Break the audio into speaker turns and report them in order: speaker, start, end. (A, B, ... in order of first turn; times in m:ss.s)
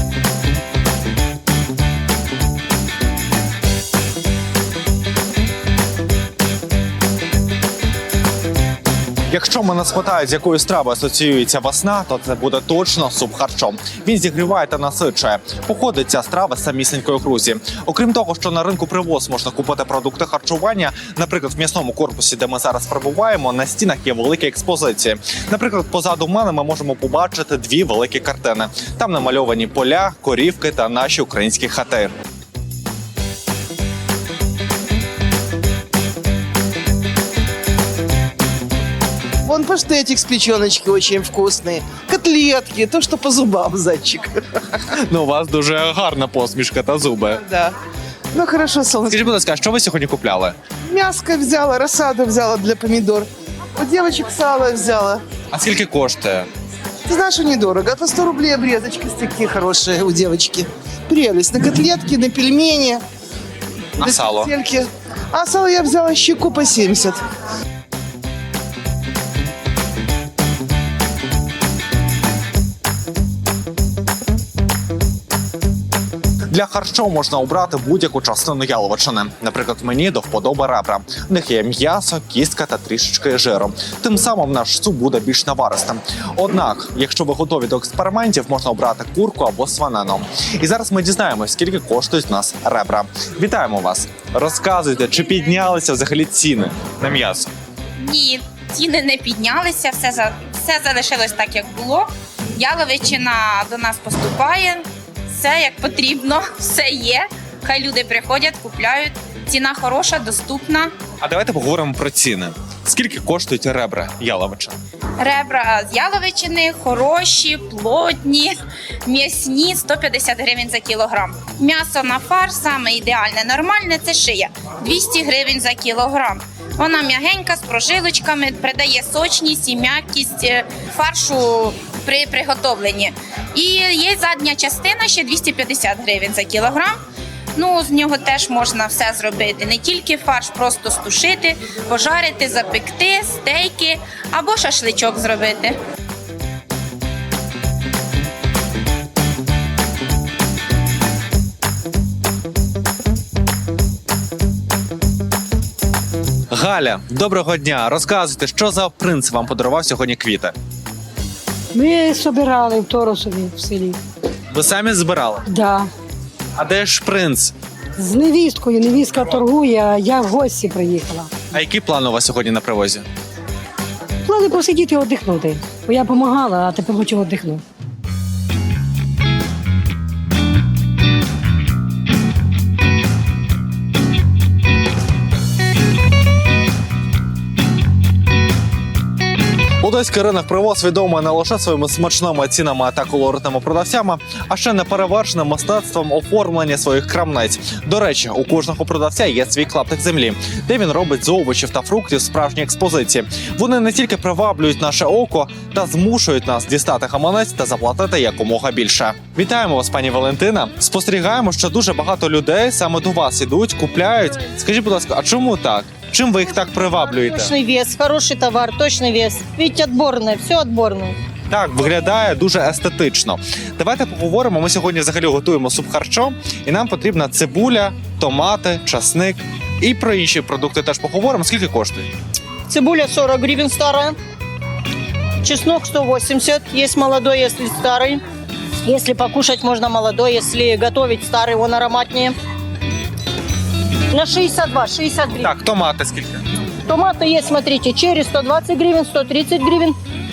0:09.3-0:32.1 A
0:39.4-0:44.6 B
0:44.9-0:47.4 A
0:47.5-0:47.8 B
0:48.3-0:49.2 B
0:49.1-0:50.6 A
0:50.9-0:55.2 B
0:55.5-0:56.5 A
0:57.1-1:03.0 B
1:04.0-1:04.5 A
1:04.0-1:07.2 B
1:16.5-1:37.5 A
1:38.0-1:50.9 C
1:51.2-1:54.8 A
1:55.2-2:17.0 C
2:17.6-2:25.8 C
2:36.5-2:40.5 A
2:41.7-2:44.0 D
2:44.5-2:45.4 A
2:45.4-2:45.9 D
2:46.6-2:47.5 A
2:48.0-2:51.3 D
2:51.5-2:53.0 A
2:54.2-2:57.6 D
3:09.8-3:37.5 A
3:36.9-3:41.2 E
3:41.5-3:52.1 A
3:52.7-3:54.2 E
3:55.4-3:58.2 E
3:58.8-4:02.4 E
4:04.1-4:05.5 E
4:05.4-4:06.4 A
4:06.8-4:09.9 E